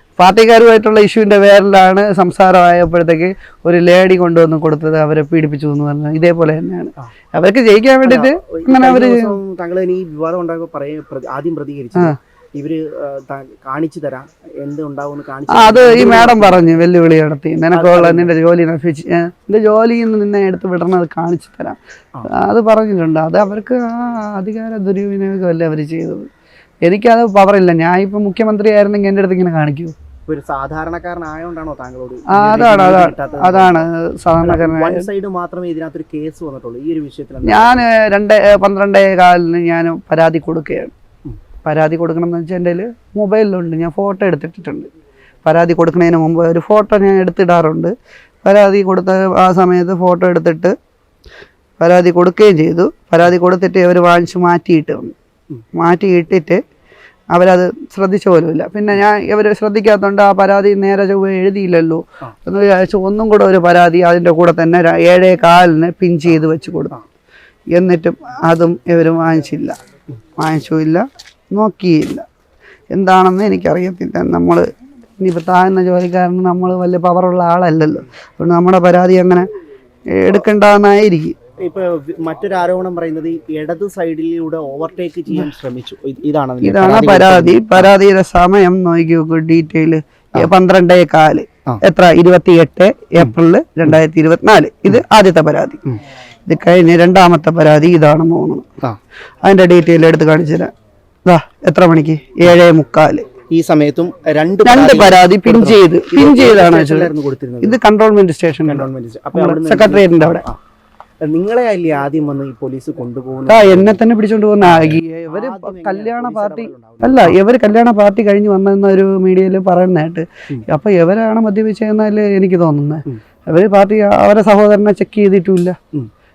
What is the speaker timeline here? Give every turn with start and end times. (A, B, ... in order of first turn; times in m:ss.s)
0:00.2-0:09.4 A
0:08.0-0:16.6 B
0:15.5-0:21.8 A
0:17.7-0:18.3 B
0:22.3-0:26.3 A
0:26.8-0:29.9 A
0:30.3-0:33.9 B
0:32.3-0:35.1 A
0:34.4-0:37.8 B
0:37.4-0:40.9 A
0:41.6-0:44.9 A
0:45.4-0:50.7 A
0:51.8-0:55.1 A
0:55.8-0:56.6 A
0:57.3-1:07.0 A
1:07.7-1:09.8 A
1:10.4-1:12.2 A
1:12.9-1:14.7 A
1:15.2-1:19.5 A
1:20.1-1:21.4 A
1:21.6-1:27.9 B
1:26.6-1:35.8 A
1:36.5-1:38.7 A
1:39.4-1:40.7 A
1:41.3-1:43.3 A
1:43.5-1:47.8 B
1:44.6-1:47.1 A
1:47.6-1:50.4 A
1:48.6-1:50.6 B
1:51.2-1:54.0 B
1:53.5-2:05.8 A
1:54.6-1:57.4 B